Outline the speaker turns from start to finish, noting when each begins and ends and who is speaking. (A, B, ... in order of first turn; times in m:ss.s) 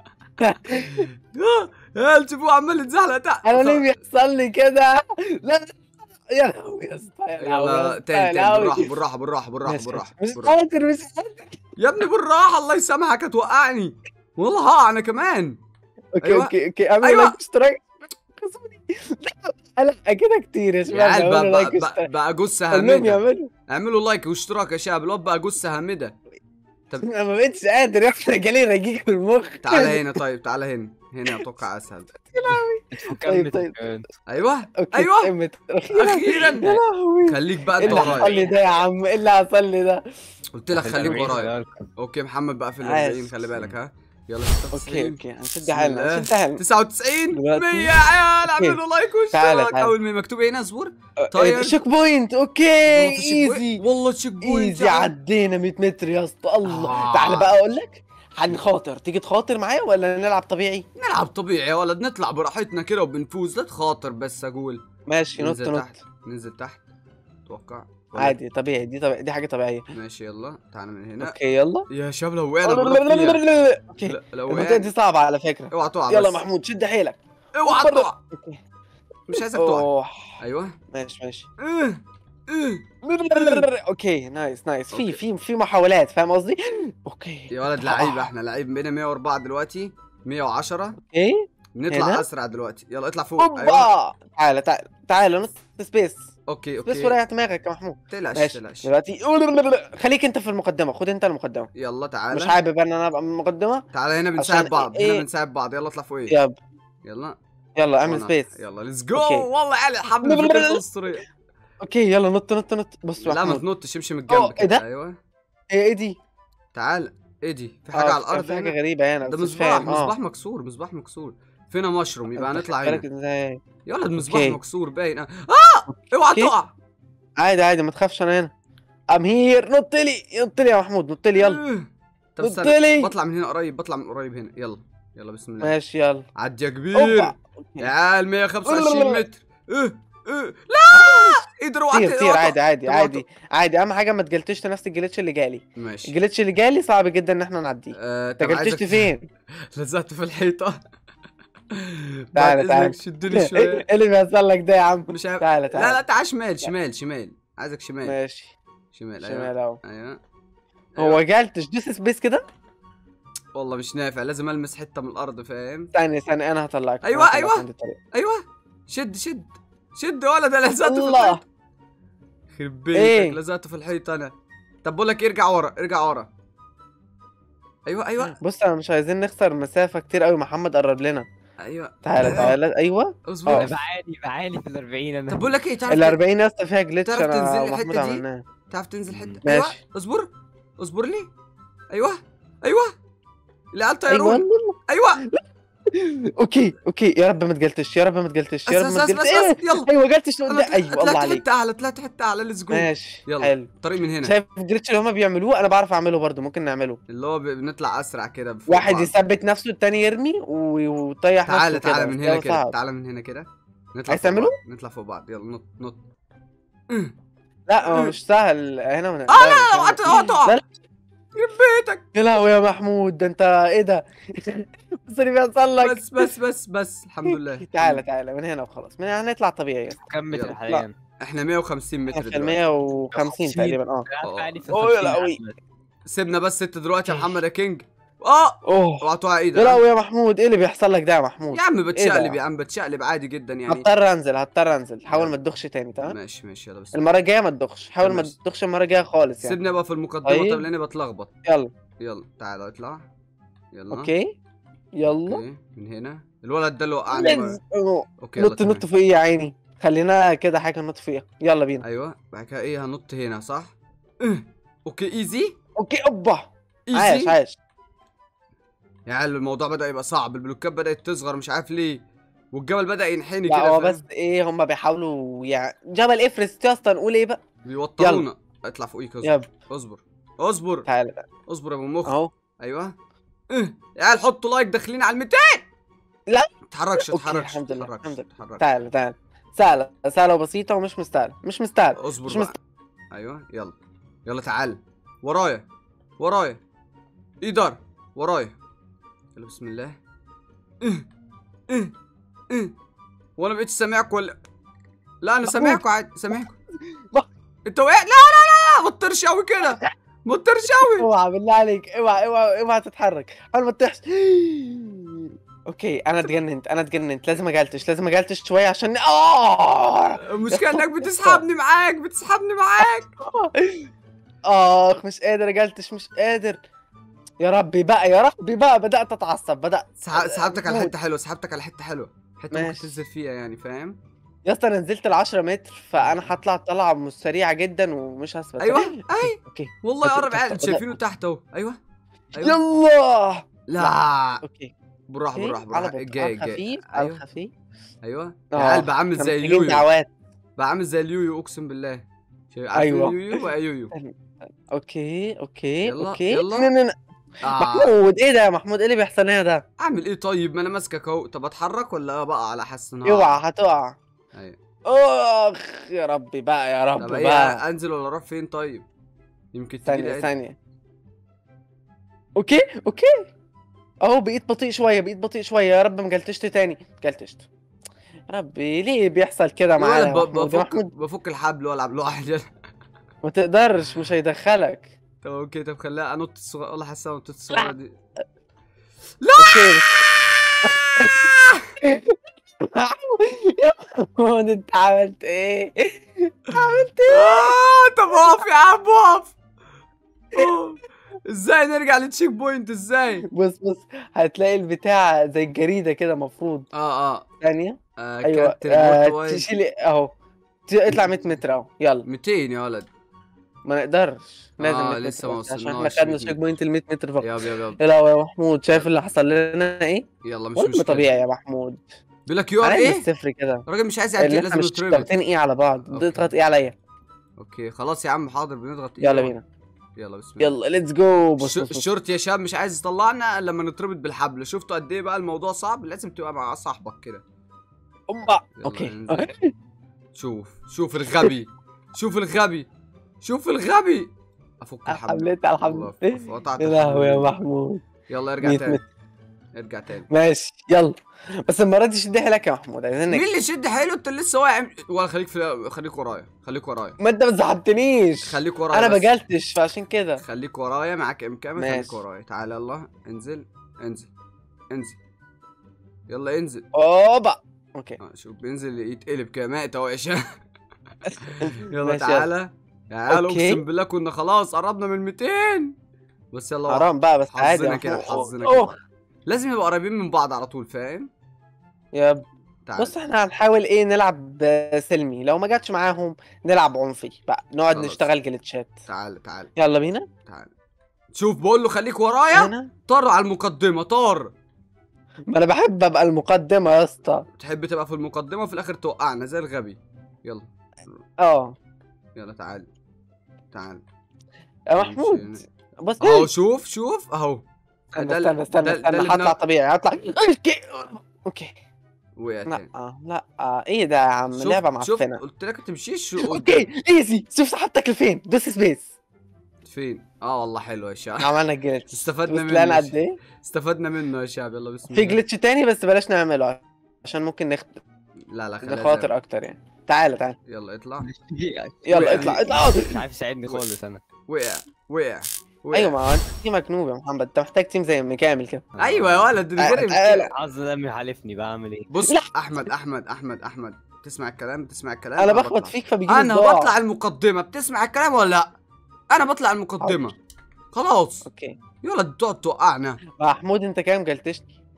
0:00.4-0:01.1 A
0:00.7-0:03.9 B
0:03.4-0:08.9 A
0:07.4-0:10.6 B
0:09.6-0:11.6 A
0:11.8-0:15.6 B
0:16.1-0:22.1 A
0:16.2-0:17.4 B
0:20.9-0:26.1 B
0:22.7-0:23.5 A
0:27.0-0:30.0 A
0:29.6-0:32.1 B
0:32.2-0:33.7 A
0:32.9-0:34.1 C
0:34.3-0:35.3 B
0:34.8-0:40.0 A
0:35.9-0:38.4 B
0:37.8-0:38.6 C
0:40.5-0:51.8 B
0:40.7-0:41.9 C
0:42.8-0:43.3 A
0:44.7-0:46.6 A
0:47.3-0:48.8 A
0:49.3-0:49.9 A
0:51.2-0:53.8 A
0:52.8-0:55.1 B
0:54.4-1:00.8 A
0:56.6-0:57.5 B
1:01.0-1:04.8 B
1:05.1-1:05.9 A
1:05.4-1:06.8 B
1:07.5-1:08.4 B
1:08.2-1:09.8 A
1:09.9-1:11.3 B
1:11.2-1:11.8 A
1:11.9-1:13.4 B
1:12.6-1:18.6 A
1:14.0-1:14.9 B
1:15.7-1:16.4 B
1:17.5-1:18.2 B
1:19.3-1:19.9 B
1:19.3-1:20.4 A
1:20.4-1:20.8 B
1:20.9-1:21.5 A
1:21.6-1:23.7 B
1:23.0-1:28.3 A
1:24.9-1:25.2 B
1:27.5-1:31.0 B
1:31.0-1:32.2 A
1:31.8-1:33.9 B
1:33.4-1:36.3 A
1:36.5-1:37.2 B
1:36.8-1:41.7 A
1:38.1-1:38.9 B
1:41.8-1:42.6 B
1:42.3-1:43.8 A
1:43.9-1:46.4 B
1:44.4-1:45.2 A
1:46.3-1:46.6 A
1:47.0-1:47.4 B
1:47.8-1:48.5 A
1:48.0-1:51.2 B
1:49.1-1:49.5 A
1:50.2-1:51.1 A
1:51.8-1:53.6 A
1:53.2-1:55.2 B
1:54.3-1:54.8 A
1:55.7-1:56.2 A
1:56.7-2:03.0 B
1:57.9-2:00.1 A
2:02.4-2:03.6 A
2:03.8-2:06.7 B
2:04.2-2:04.6 A
2:05.9-2:06.5 A
2:07.4-2:08.5 A
2:09.1-2:11.6 A
2:11.4-2:15.7 B
2:12.4-2:13.1 A
2:15.6-2:16.2 A
2:16.4-2:23.2 B
2:16.9-2:17.9 A
2:18.6-2:19.2 A
2:20.9-2:29.3 A
2:25.8-2:26.1 B
2:27.9-2:29.1 B
2:29.7-2:30.8 B
2:31.7-2:33.8 B
2:32.4-2:36.0 A
2:35.1-2:38.2 B
2:38.0-2:38.5 A
2:38.9-2:40.2 B
2:39.2-2:39.8 A
2:40.9-2:41.2 B
2:41.0-2:42.4 A
2:43.5-2:45.9 B
2:45.9-2:48.0 A
2:47.0-2:51.4 B
2:50.8-2:51.4 A
2:52.5-2:54.3 B
2:52.9-2:53.4 A
2:54.8-2:56.3 B
2:57.9-2:58.4 B
2:58.2-3:01.3 A
3:01.6-3:02.6 B
3:02.0-3:03.7 A
3:03.3-3:03.7 B
3:03.5-3:05.5 C
3:05.3-3:06.2 B
3:05.9-3:08.4 A
3:07.0-3:11.3 B
3:09.1-3:09.4 C
3:09.4-3:09.8 A
3:11.9-3:12.9 B
3:13.7-3:15.2 B
3:14.1-3:21.4 A
3:18.7-3:19.9 B
3:20.5-3:24.3 B
3:22.7-3:23.7 A
3:24.2-3:27.0 A
3:27.1-3:29.1 B
3:28.7-3:32.7 A
3:31.4-3:36.0 B
3:34.1-3:34.6 A
3:37.7-3:40.7 A
3:37.8-3:38.1 B
3:39.3-3:40.6 B
3:41.3-3:42.0 B
3:42.1-3:46.3 A
3:45.8-3:48.0 B
3:47.3-3:50.0 A
3:50.0-3:50.9 C
3:51.2-3:52.6 B
3:52.1-3:54.0 A
3:53.1-3:55.6 C
3:54.7-3:55.4 A
3:56.1-3:59.8 B
3:58.6-3:59.0 A
3:59.5-4:02.4 A
4:01.5-4:03.8 B
4:03.7-4:06.2 A
4:06.0-4:07.1 B
4:06.9-4:09.6 A
4:08.0-4:08.3 B
4:09.4-4:11.3 B
4:10.2-4:10.6 A
4:11.4-4:11.7 A
4:12.0-4:13.0 B
4:13.7-4:14.1 B
4:13.9-4:14.3 A
4:15.0-4:15.4 A
4:15.3-4:17.6 B
4:17.1-4:21.8 A
4:18.2-4:18.8 B
4:21.8-4:25.5 B
4:25.8-4:27.6 A
4:26.9-4:27.3 B
4:29.1-4:32.0 B
4:32.5-4:34.0 B
4:33.4-4:37.4 A
4:37.6-4:40.9 B
4:38.0-4:38.2 A
4:39.2-4:39.5 A
4:40.9-4:41.2 A
4:41.5-4:42.9 B
4:42.0-4:42.3 A
4:43.5-4:45.7 B
4:46.3-4:52.5 A
4:46.7-4:48.6 B
4:52.0-4:52.5 B
4:53.1-4:53.7 B
4:54.2-4:55.6 B
4:56.2-4:56.6 B
4:57.4-4:58.5 B
4:59.3-5:00.0 B
5:03.4-5:04.4 B
5:05.2-5:06.6 B
5:05.4-5:05.8 A
5:07.7-5:11.1 B
5:09.6-5:09.9 A
5:10.8-5:21.4 A
5:20.2-5:23.1 B
5:23.2-5:23.9 A
5:24.4-5:26.6 A
5:27.4-5:30.9 A
5:30.0-5:34.0 B
5:32.5-5:32.9 A
5:34.4-5:40.9 A
5:38.6-5:41.8 B
5:42.3-5:42.6 B
5:42.4-5:44.7 A
5:43.7-5:44.4 B
5:45.1-5:47.2 B
5:45.3-5:47.5 A
5:48.0-5:49.8 B
5:48.5-5:50.1 A
5:50.6-5:53.9 B
5:52.7-5:53.4 A
5:54.7-5:56.9 A
5:55.8-5:56.7 B
5:57.4-5:57.9 B
5:57.5-5:59.6 A
5:59.8-6:03.4 B
6:03.0-6:04.0 A
6:04.9-6:07.6 A
6:07.0-6:08.8 B
6:09.5-6:10.3 B
6:09.9-6:10.6 A
6:12.4-6:13.3 A
6:14.0-6:17.5 A
6:18.3-6:20.9 A
6:19.8-6:22.5 B
6:23.2-6:24.9 A
6:25.2-6:28.0 B
6:29.2-6:31.7 B
6:29.4-6:30.1 A
6:30.6-6:31.3 A
6:31.8-6:37.5 A
6:37.1-6:39.3 B
6:38.1-6:38.4 A
6:40.3-6:43.2 B
6:43.3-6:46.7 A
6:46.7-6:47.3 B
6:47.4-6:50.1 A
6:48.0-6:49.5 B
6:50.7-6:52.0 A
6:52.0-6:52.9 B
6:53.6-7:01.8 A
6:54.6-6:56.4 B
6:57.2-6:57.8 B
7:00.2-7:01.1 B
7:02.2-7:03.0 B
7:02.6-7:03.6 A
7:03.6-7:05.1 B
7:04.2-7:06.7 A
7:05.9-7:06.3 B
7:07.4-7:09.3 B
7:09.0-7:09.4 A
7:10.0-7:10.5 B
7:10.4-7:11.9 A
7:11.4-7:17.2 B
7:18.1-7:19.5 A
7:18.6-7:19.3 B
7:20.1-7:22.7 B
7:23.2-7:24.1 B
7:24.6-7:27.3 B
7:24.9-7:27.8 A
7:28.1-7:28.8 B
7:28.4-7:28.8 A
7:29.5-7:30.1 B
7:30.1-7:33.2 A
7:33.1-7:37.0 B
7:37.0-7:40.2 A
7:38.2-7:39.1 B
7:40.2-7:44.1 B
7:41.6-7:42.0 A
7:44.7-7:45.0 B
7:46.1-7:46.6 B
7:46.7-7:48.0 A
7:48.0-7:50.2 B
7:51.1-7:55.7 B
7:51.2-7:52.3 A
7:53.1-7:53.6 A
7:56.3-7:58.7 B
7:56.7-7:58.8 A
7:59.3-8:01.1 B
8:01.9-8:02.2 A
8:02.6-8:02.9 B
8:02.8-8:08.7 A
8:07.7-8:08.1 B
8:08.8-8:09.5 B
8:09.6-8:10.1 A
8:10.2-8:10.5 B
8:11.1-8:14.3 B
8:12.3-8:12.7 A
8:15.3-8:17.2 A
8:17.4-8:21.0 B
8:21.2-8:21.6 A
8:22.2-8:22.7 B
8:23.5-8:23.8 B
8:24.7-8:26.3 A
8:24.8-8:25.4 B
8:26.0-8:29.4 B
8:28.0-8:31.6 A
8:32.2-8:32.7 B
8:32.5-8:35.2 A
8:34.3-8:36.7 B
8:36.2-8:38.9 A
8:39.6-8:41.4 B
8:41.2-8:43.2 A
8:41.9-8:45.2 B
8:44.9-8:47.8 A
8:48.3-8:49.1 B
8:48.6-8:50.4 A
8:50.5-8:51.1 B
8:51.0-8:54.0 C
8:51.8-8:53.0 A
8:51.9-8:52.4 B
8:54.3-8:56.0 B
8:55.7-8:58.6 A
8:58.7-8:59.3 C
8:58.8-9:00.3 B
8:59.6-9:00.3 A
9:00.3-9:01.9 C
9:01.9-9:08.5 B
9:05.2-9:06.7 A
9:09.1-9:10.1 B
9:10.7-9:11.2 B
9:11.2-9:11.6 A
9:11.8-9:13.0 B
9:13.1-9:14.5 A